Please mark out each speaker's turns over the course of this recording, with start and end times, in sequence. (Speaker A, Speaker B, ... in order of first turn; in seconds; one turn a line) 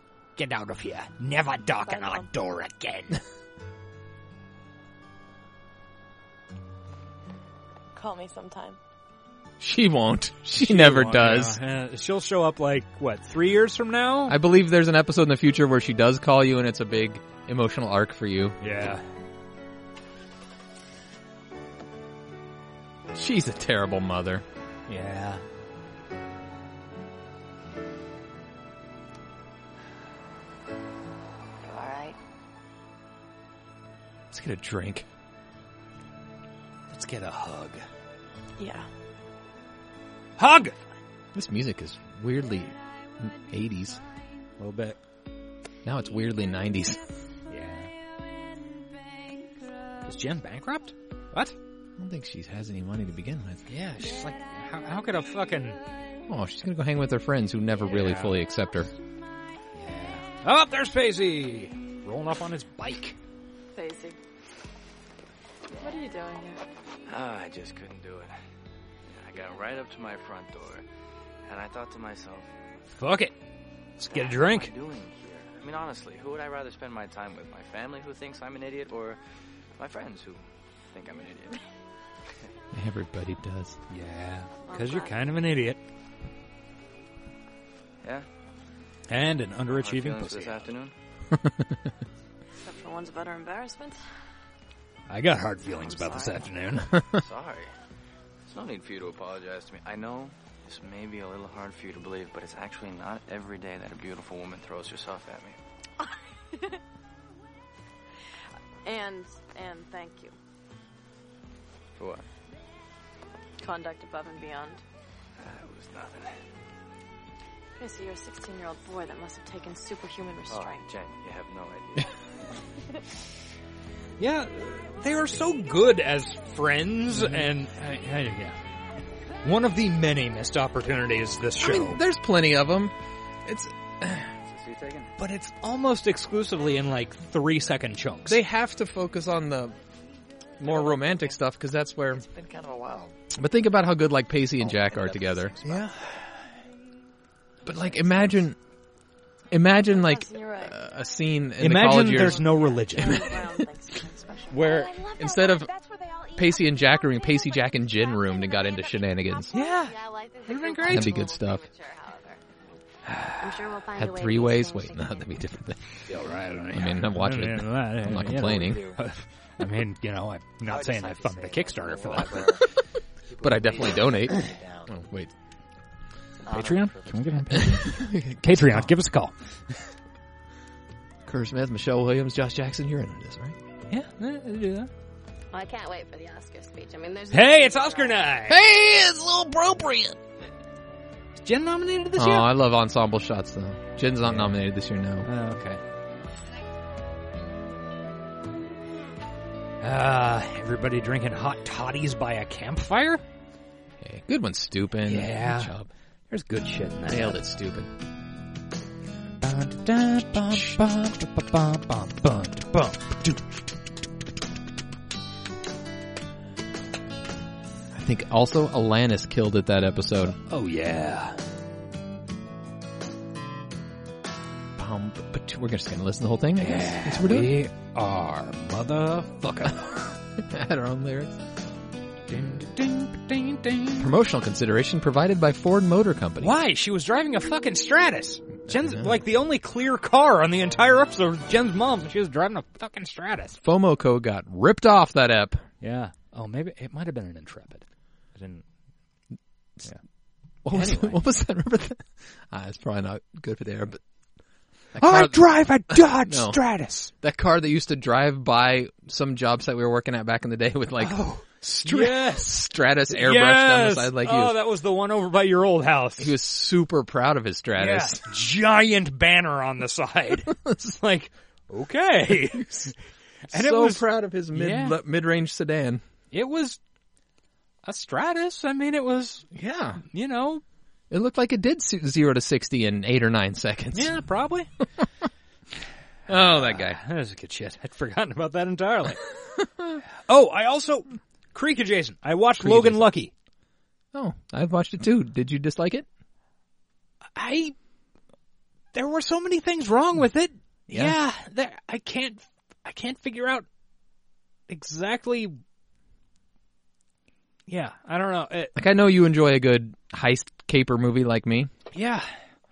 Speaker A: 0.3-3.2
Speaker B: 1.9-2.2
Speaker B: 7.9-8.8
Speaker C: 9.6-11.6
Speaker A: 10.6-14.4
Speaker C: 14.3-18.6
Speaker A: 18.6-19.0
Speaker C: 23.1-24.4
Speaker A: 24.9-25.4
Speaker D: 31.6-32.2
Speaker C: 34.3-35.0
Speaker A: 36.9-37.8
Speaker B: 38.6-38.9
Speaker A: 40.4-40.8
Speaker C: 41.3-44.0
Speaker A: 44.6-45.0
Speaker C: 45.8-47.0
Speaker A: 47.5-47.9
Speaker A: 50.0-51.5
Speaker C: 52.0-53.6
Speaker A: 53.7-55.8
Speaker C: 56.3-58.9
Speaker A: 57.8-58.4
Speaker A: 59.7-63.1
Speaker B: 63.7-64.2
Speaker B: 65.8-66.6
Speaker E: 67.1-68.3
Speaker E: 69.1-70.8
Speaker E: 71.5-72.5
Speaker A: 73.0-73.3
Speaker A: 74.0-74.7
Speaker E: 74.1-79.2
Speaker E: 79.8-81.6
Speaker C: 82.7-83.8
Speaker A: 83.9-85.8
Speaker D: 84.7-85.1
Speaker A: 89.1-90.7
Speaker E: 89.7-90.9
Speaker C: 91.3-91.8
Speaker B: 92.6-94.0
Speaker A: 95.1-96.9
Speaker E: 97.2-97.7
Speaker E: 98.5-105.6
Speaker B: 106.0-106.8
Speaker B: 108.8-110.4
Speaker E: 112.0-112.2
Speaker B: 113.6-114.8
Speaker E: 115.4-116.4
Speaker B: 117.8-120.9
Speaker E: 120.5-122.2
Speaker A: 124.2-128.6
Speaker C: 127.1-127.5
Speaker A: 129.4-132.0
Speaker C: 131.6-134.3
Speaker E: 134.5-135.1
Speaker A: 135.2-138.4
Speaker C: 138.3-139.8
Speaker C: 140.6-142.2
Speaker F: 140.6-141.2
Speaker F: 142.1-143.2
Speaker C: 143.3-145.6
Speaker F: 144.6-146.0
Speaker A: 145.6-146.0
Speaker C: 147.6-148.6
Speaker F: 147.7-148.4
Speaker C: 149.5-153.7
Speaker B: 149.9-150.8
Speaker A: 151.6-153.4
Speaker B: 152.1-154.8
Speaker C: 154.5-155.7
Speaker G: 154.6-162.4
Speaker C: 156.3-159.5
Speaker A: 159.5-161.2
Speaker D: 159.8-161.8
Speaker C: 160.8-161.7
Speaker A: 163.1-163.6
Speaker G: 163.4-165.3
Speaker C: 163.9-165.8
Speaker A: 166.1-172.6
Speaker C: 166.7-168.9
Speaker F: 168.4-169.0
Speaker F: 170.7-172.6
Speaker F: 173.3-174.9
Speaker C: 173.4-175.3
Speaker F: 176.4-177.4
Speaker A: 176.5-179.3
Speaker C: 177.5-178.9
Speaker C: 181.2-183.6
Speaker A: 183.9-184.9
Speaker G: 185.5-188.2
Speaker A: 187.3-188.6
Speaker C: 188.5-190.2
Speaker A: 191.4-192.5
Speaker C: 192.2-195.3
Speaker A: 194.2-194.6
Speaker A: 195.2-195.8
Speaker A: 199.8-203.2
Speaker C: 204.0-205.9
Speaker A: 205.1-205.7
Speaker A: 206.3-207.4
Speaker C: 207.1-207.9
Speaker A: 209.4-213.6
Speaker C: 217.9-220.4
Speaker A: 220.5-221.4
Speaker C: 224.8-227.5
Speaker A: 226.6-230.0
Speaker C: 230.3-231.4
Speaker A: 232.3-234.1
Speaker C: 234.0-236.6
Speaker A: 236.4-243.6
Speaker C: 238.7-239.1
Speaker C: 243.6-245.6
Speaker A: 245.8-248.6
Speaker C: 250.6-254.0
Speaker A: 250.7-251.2
Speaker C: 254.9-256.6
Speaker A: 255.0-257.1
Speaker C: 257.2-264.6
Speaker A: 261.0-266.3
Speaker C: 266.2-268.2
Speaker A: 267.8-272.9
Speaker A: 273.5-275.0
Speaker C: 273.5-276.0
Speaker A: 276.3-276.8
Speaker A: 277.8-279.5
Speaker C: 279.5-280.0
Speaker A: 280.1-280.6
Speaker C: 281.1-284.1
Speaker A: 283.9-284.7
Speaker C: 286.3-287.0
Speaker A: 286.3-289.3
Speaker A: 290.2-293.3
Speaker C: 292.6-293.1
Speaker C: 294.1-296.1
Speaker A: 297.3-297.7
Speaker A: 298.9-303.6
Speaker C: 300.9-301.1
Speaker A: 304.7-305.6
Speaker A: 307.7-308.7
Speaker C: 308.8-311.7
Speaker A: 311.9-312.3